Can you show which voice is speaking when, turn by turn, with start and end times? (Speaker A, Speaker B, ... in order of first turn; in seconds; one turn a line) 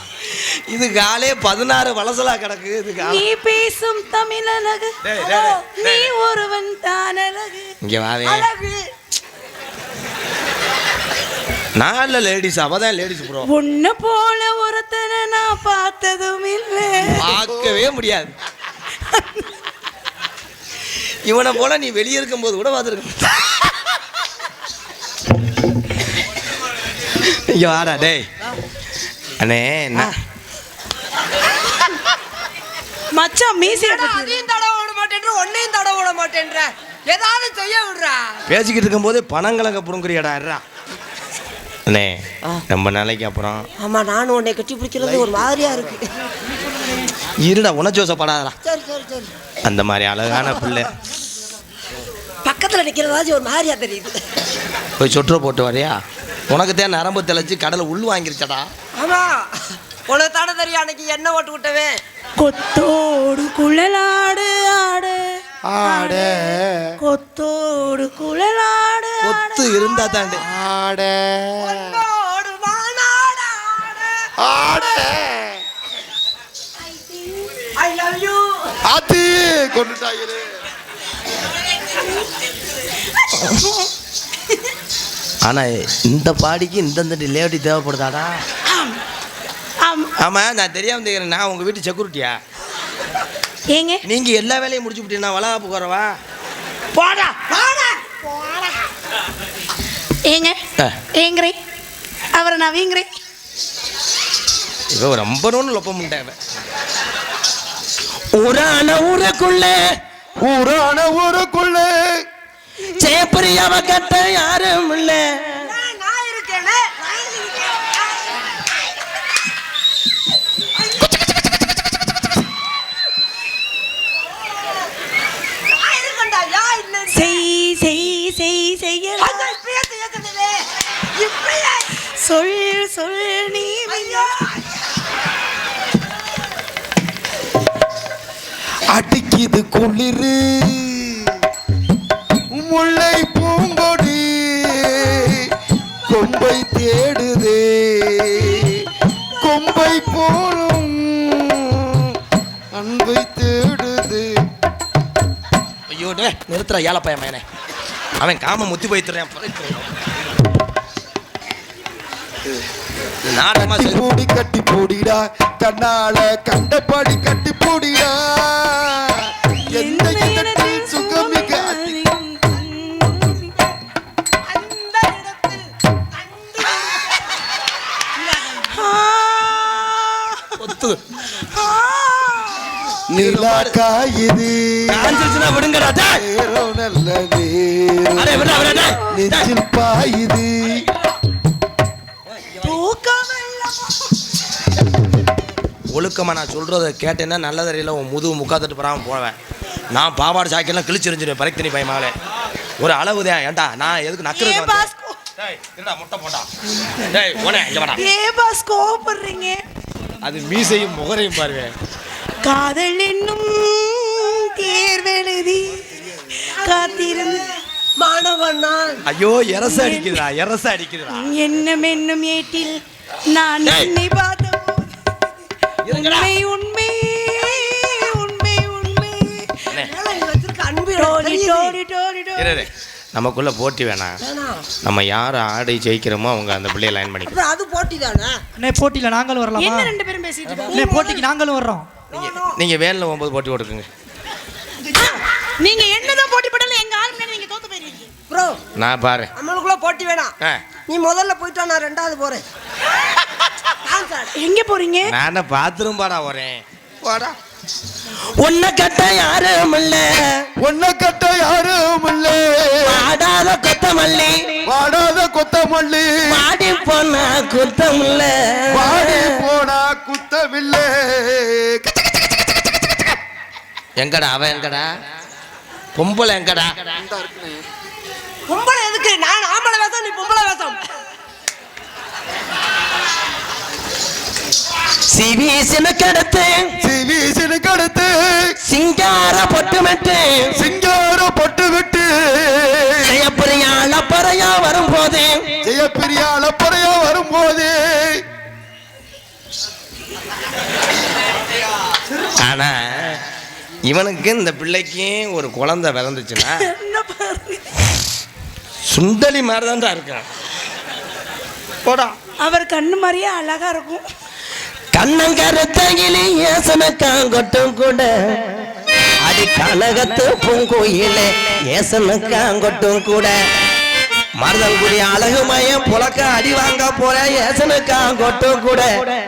Speaker A: 0.2-3.2
Speaker B: 3.0-7.7
Speaker A: 5.0-6.1
Speaker A: 7.8-8.5
Speaker B: 8.2-8.8
Speaker A: 11.8-13.5
Speaker B: 13.4-17.3
Speaker A: 17.0-18.3
Speaker B: 19.1-19.4
Speaker A: 21.2-23.6
Speaker A: 27.2-28.3
Speaker A: 29.4-30.1
Speaker B: 33.1-34.4
Speaker C: 33.8-38.4
Speaker A: 38.5-40.6
Speaker A: 41.9-43.6
Speaker C: 43.8-46.1
Speaker A: 47.4-48.5
Speaker C: 48.6-49.3
Speaker A: 49.6-50.9
Speaker C: 52.4-54.2
Speaker A: 55.0-56.0
Speaker A: 56.5-58.7
Speaker C: 59.0-62.0
Speaker B: 62.4-70.3
Speaker D: 65.7-67.0
Speaker A: 69.2-70.4
Speaker D: 70.4-72.0
Speaker C: 71.6-74.3
Speaker D: 74.4-75.6
Speaker C: 77.6-78.5
Speaker D: 78.9-80.5
Speaker A: 85.4-88.4
Speaker B: 88.7-89.0
Speaker B: 89.8-90.1
Speaker A: 90.2-92.4
Speaker B: 93.7-94.0
Speaker A: 94.0-96.1
Speaker C: 96.9-98.1
Speaker B: 100.3-100.6
Speaker B: 101.1-101.6
Speaker B: 102.3-103.1
Speaker A: 104.9-106.3
Speaker A: 108.3-109.8
Speaker D: 110.4-112.2
Speaker A: 112.9-115.7
Speaker C: 115.6-118.7
Speaker C: 120.7-121.1
Speaker C: 125.7-127.4
Speaker B: 127.1-129.5
Speaker C: 129.2-131.9
Speaker B: 132.2-134.3
Speaker C: 133.9-134.6
Speaker D: 138.9-141.3
Speaker D: 142.5-145.5
Speaker D: 146.1-148.8
Speaker D: 149.4-152.1
Speaker D: 152.7-154.4
Speaker A: 155.9-157.4
Speaker A: 158.2-159.9
Speaker A: 163.3-164.0
Speaker D: 163.5-171.9
Speaker B: 169.7-173.6
Speaker C: 174.4-177.3
Speaker B: 178.4-180.6
Speaker A: 180.6-181.0
Speaker B: 181.3-182.7
Speaker D: 183.1-185.3
Speaker A: 183.2-183.8
Speaker A: 184.9-186.2
Speaker D: 186.1-190.8
Speaker A: 188.2-189.5
Speaker B: 188.5-189.2
Speaker B: 192.6-194.1
Speaker A: 195.9-199.3
Speaker A: 199.9-202.1
Speaker A: 202.8-204.8
Speaker B: 204.3-205.2
Speaker A: 205.4-206.5
Speaker A: 207.1-208.0
Speaker B: 207.9-209.6
Speaker A: 210.2-211.7
Speaker B: 212.4-217.5
Speaker C: 216.5-217.4
Speaker C: 218.0-219.0
Speaker A: 219.1-221.2
Speaker B: 219.6-220.2
Speaker B: 221.1-225.1
Speaker A: 223.6-223.9
Speaker A: 225.8-226.3
Speaker B: 225.9-229.7
Speaker C: 227.5-228.1
Speaker C: 229.8-231.8
Speaker B: 231.0-232.7
Speaker A: 232.4-234.2
Speaker C: 234.2-234.7
Speaker A: 234.8-237.3
Speaker C: 237.3-238.4
Speaker E: 238.6-239.9
Speaker B: 239.6-241.2
Speaker E: 240.7-241.9
Speaker C: 242.1-242.6
Speaker A: 242.1-243.9
Speaker B: 244.9-248.1
Speaker C: 248.3-248.6
Speaker A: 248.8-249.3
Speaker C: 249.4-250.3
Speaker C: 250.9-252.4
Speaker C: 253.8-254.3
Speaker B: 254.3-255.1
Speaker A: 255.1-257.3
Speaker A: 258.4-260.5
Speaker D: 260.6-263.1
Speaker A: 262.9-264.6
Speaker D: 264.7-266.4
Speaker A: 266.3-269.3
Speaker D: 268.7-272.2
Speaker A: 274.0-274.9
Speaker A: 275.9-276.8
Speaker D: 276.9-277.6
Speaker C: 278.5-280.8
Speaker A: 285.1-286.7
Speaker D: 286.8-288.6
Speaker A: 288.6-290.6
Speaker D: 290.5-293.2
Speaker A: 293.0-295.5
Speaker D: 295.6-298.2
Speaker A: 302.4-303.2
Speaker A: 303.8-306.6
Speaker B: 306.4-307.8
Speaker A: 308.9-310.3
Speaker A: 311.8-312.1
Speaker B: 312.4-314.0
Speaker A: 314.9-318.1
Speaker A: 319.2-323.4
Speaker A: 324.4-328.9